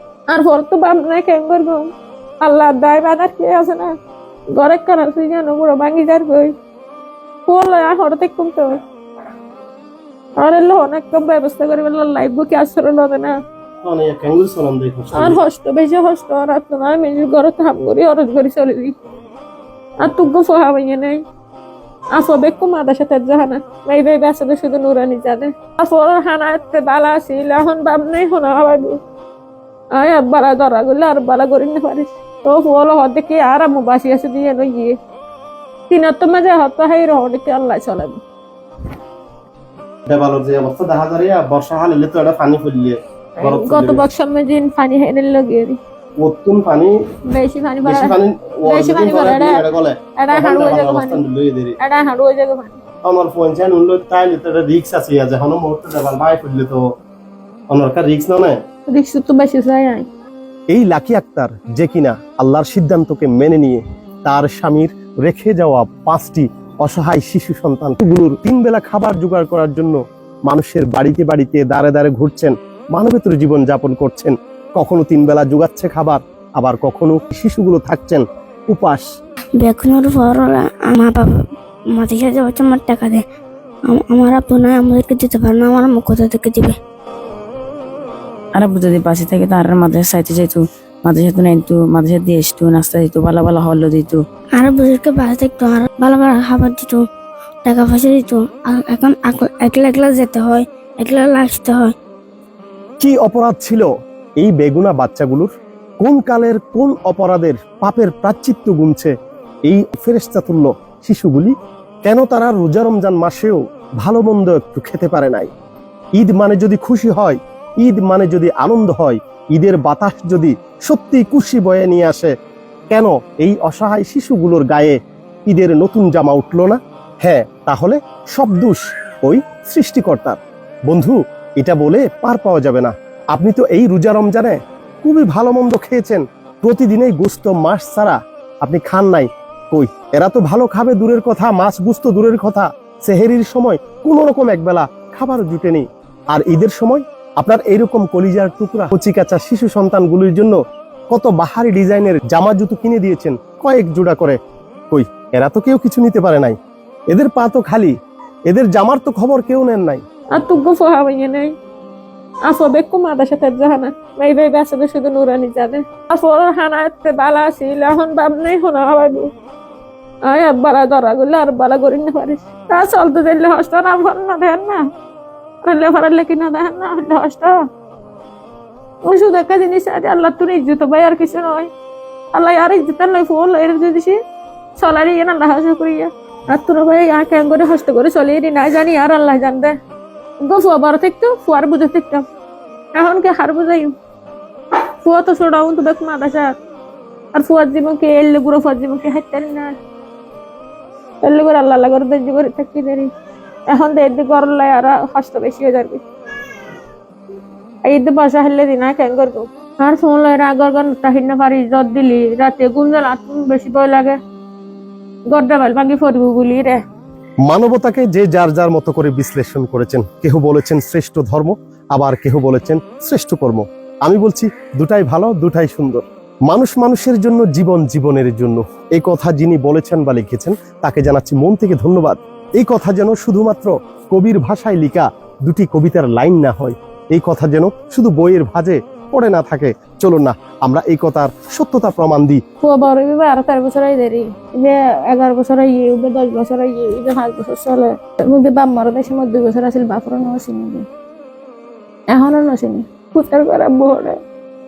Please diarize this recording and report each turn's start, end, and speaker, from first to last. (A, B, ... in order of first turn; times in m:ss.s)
0:00.3-0:01.9 A
0:02.4-0:03.9 A
0:04.5-0:06.5 A
0:07.5-0:08.8 A
0:10.4-0:13.4 A
0:13.8-0:15.4 B
0:15.1-0:18.9 A
0:20.0-0:21.2 A
0:22.1-0:29.0 A
0:29.9-0:35.0 A
0:35.9-0:38.2 A
0:40.1-0:44.0 B
0:43.4-0:45.8 A
0:46.2-0:46.9 B
0:47.3-0:49.6 A
0:47.8-0:51.8 B
0:50.2-0:51.2 A
0:51.8-0:52.8 A
0:53.0-0:56.8 B
0:57.7-0:58.6 B
0:58.9-1:00.1 A
1:00.7-1:19.0 B
1:19.6-1:23.2 C
1:23.9-1:26.8 C
1:28.5-1:34.2 D
1:34.5-1:37.0 C
1:37.6-1:41.9 C
1:43.0-1:45.5 B
1:46.0-1:49.1 B
1:49.7-1:51.5 B
1:52.0-1:55.5 B
1:56.2-2:02.3 B
2:02.9-2:05.0 B
2:05.5-2:10.4 B
2:10.9-2:30.5 B
2:31.1-2:34.4 B
2:34.9-2:36.6 B
2:37.1-2:37.9 B
2:38.5-2:40.0 B
2:40.3-2:41.5 A
2:42.5-2:49.3 A
2:50.2-2:54.8 A
2:55.6-2:57.6 A
2:59.0-3:01.7 A
3:02.3-3:04.2 A
3:04.8-3:09.7 A
3:10.4-3:12.2 A
3:13.0-3:13.9 A
3:15.0-3:16.5 A
3:17.3-3:19.7 A
3:21.2-3:23.1 A
3:23.7-3:26.0 A
3:27.8-3:34.2 A
3:35.3-3:36.8 A
3:37.4-4:02.4 B
4:02.6-4:10.8 A
4:12.1-4:14.2 A